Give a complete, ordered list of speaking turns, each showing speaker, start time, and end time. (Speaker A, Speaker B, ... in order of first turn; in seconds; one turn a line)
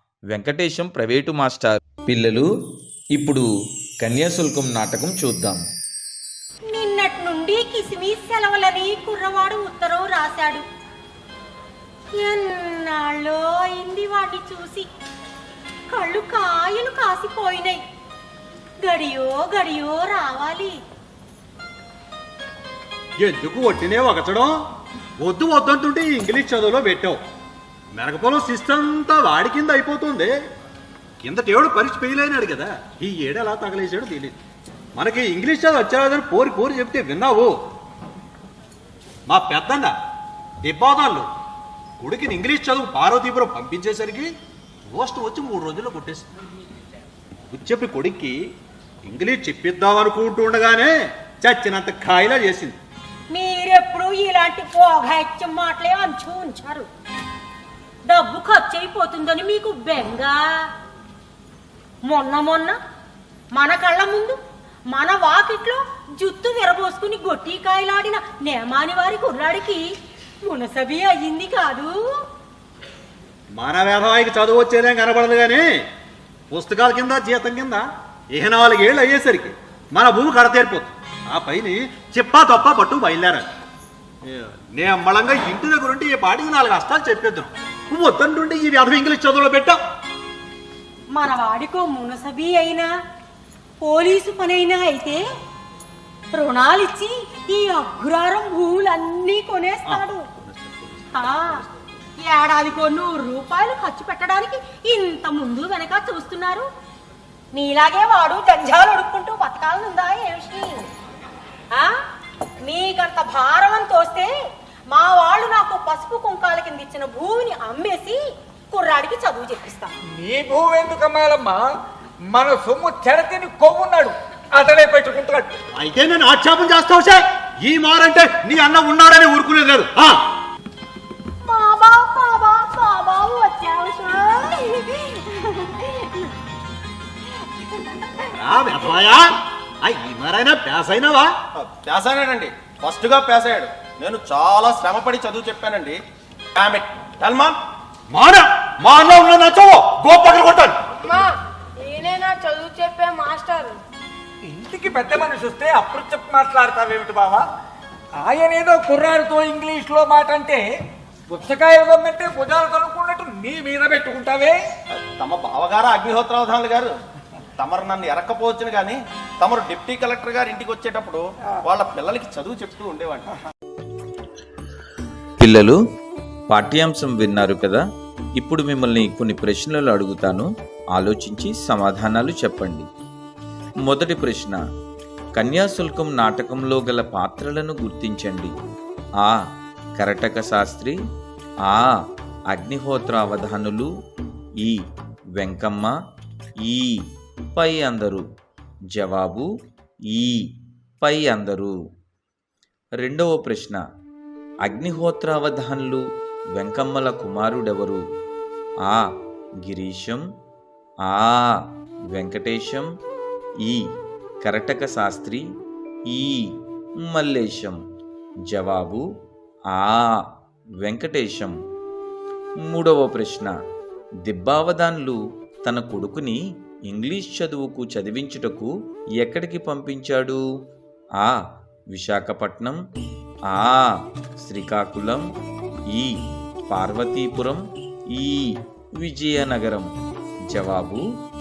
Speaker A: 0.3-2.5
Speaker A: 3.1-3.5
Speaker A: 4.0-5.6
Speaker B: 6.7-10.6
Speaker B: 12.2-14.9
Speaker B: 15.9-17.8
Speaker B: 18.8-20.8
Speaker C: 23.2-24.5
Speaker C: 25.2-27.2
Speaker C: 27.9-30.3
Speaker C: 31.2-34.4
Speaker C: 35.0-37.5
Speaker C: 39.3-39.9
Speaker C: 40.6-41.3
Speaker C: 42.0-44.3
Speaker C: 44.9-46.3
Speaker C: 47.5-48.4
Speaker C: 49.0-52.8
Speaker B: 53.3-56.9
Speaker B: 58.1-60.4
Speaker B: 62.0-62.8
Speaker B: 63.5-64.3
Speaker B: 64.9-69.8
Speaker B: 70.4-71.9
Speaker C: 73.5-75.7
Speaker C: 76.5-83.4
Speaker C: 84.2-89.8
Speaker B: 91.1-92.9
Speaker B: 93.8-95.2
Speaker B: 96.3-100.2
Speaker C: 99.9-101.1
Speaker B: 101.1-101.7
Speaker B: 102.2-106.7
Speaker B: 107.5-110.9
Speaker B: 112.6-114.3
Speaker B: 114.9-118.2
Speaker B: 118.7-120.0
Speaker D: 120.1-121.7
Speaker D: 122.3-125.5
Speaker C: 125.8-130.2
Speaker B: 131.4-136.3
Speaker B: 137.9-138.2
Speaker C: 138.4-139.2
Speaker C: 139.8-141.3
Speaker E: 141.6-146.0
Speaker E: 146.5-147.6
Speaker C: 148.1-150.8
Speaker F: 151.0-151.3
Speaker F: 151.8-153.8
Speaker D: 154.5-157.4
Speaker D: 158.2-160.7
Speaker D: 161.3-164.6
Speaker E: 164.9-166.9
Speaker E: 167.6-173.3
Speaker A: 175.4-175.8
Speaker A: 176.5-177.8
Speaker A: 178.4-182.8
Speaker A: 183.8-184.6
Speaker A: 185.3-188.5
Speaker A: 190.0-190.9
Speaker A: 191.6-192.0
Speaker A: 192.5-193.9
Speaker A: 195.4-195.9
Speaker A: 196.6-197.0
Speaker A: 197.6-198.2
Speaker A: 198.9-199.5
Speaker A: 200.1-201.7
Speaker A: 203.0-203.8
Speaker A: 204.6-206.0
Speaker A: 206.5-208.0
Speaker A: 209.6-210.2
Speaker A: 211.1-212.8
Speaker A: 214.4-215.4
Speaker A: 216.1-216.5
Speaker A: 217.1-217.8
Speaker A: 218.5-219.0
Speaker A: 219.7-220.2
Speaker A: 220.8-221.5
Speaker A: 222.7-223.5
Speaker A: 224.2-230.4
Speaker A: 231.9-232.8
Speaker A: 233.5-235.2
Speaker A: 235.9-239.9
Speaker A: 240.5-241.0